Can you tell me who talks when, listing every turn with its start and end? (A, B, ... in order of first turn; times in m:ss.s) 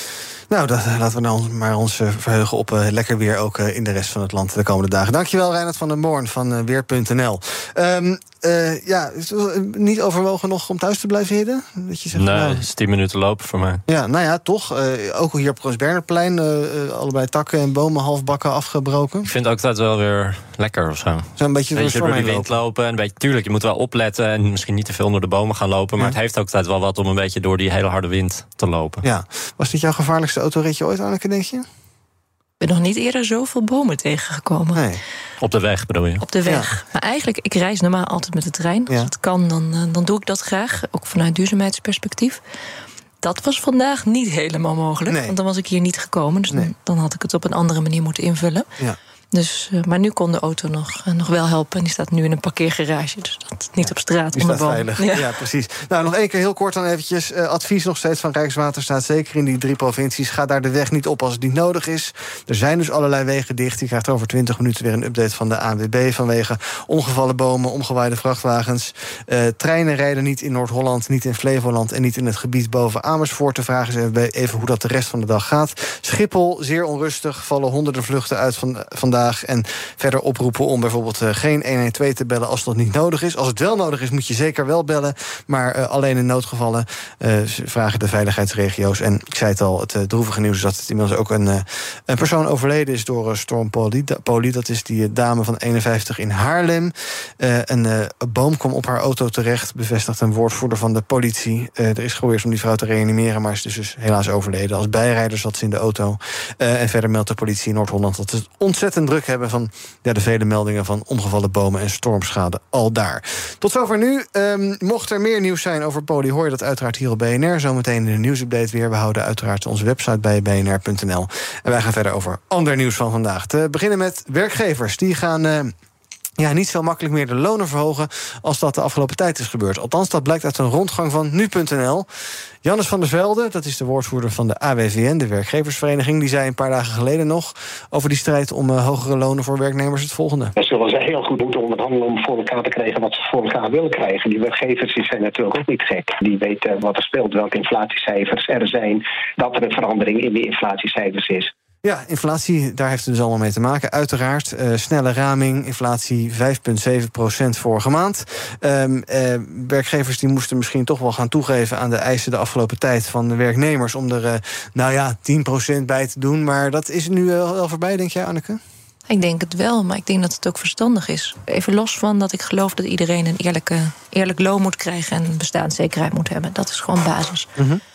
0:00.5-0:12.6 A
0:12.1-0:13.8 B
0:13.9-0:19.3 A
0:19.2-0:29.0 B
0:21.4-0:22.5 A
0:29.0-0:31.6 A
0:32.6-0:34.8 C
0:34.7-0:35.0 A
0:35.4-0:36.2 B
0:36.2-0:42.4 C
0:43.2-0:48.7 C
0:45.1-0:45.3 A
0:49.3-0:55.2 C
0:53.8-2:05.7 A
2:06.4-2:12.1 A
2:12.6-2:20.5 A
2:20.6-2:31.5 D
2:31.8-2:48.6 A
2:49.1-2:57.5 C
2:57.6-2:57.8 A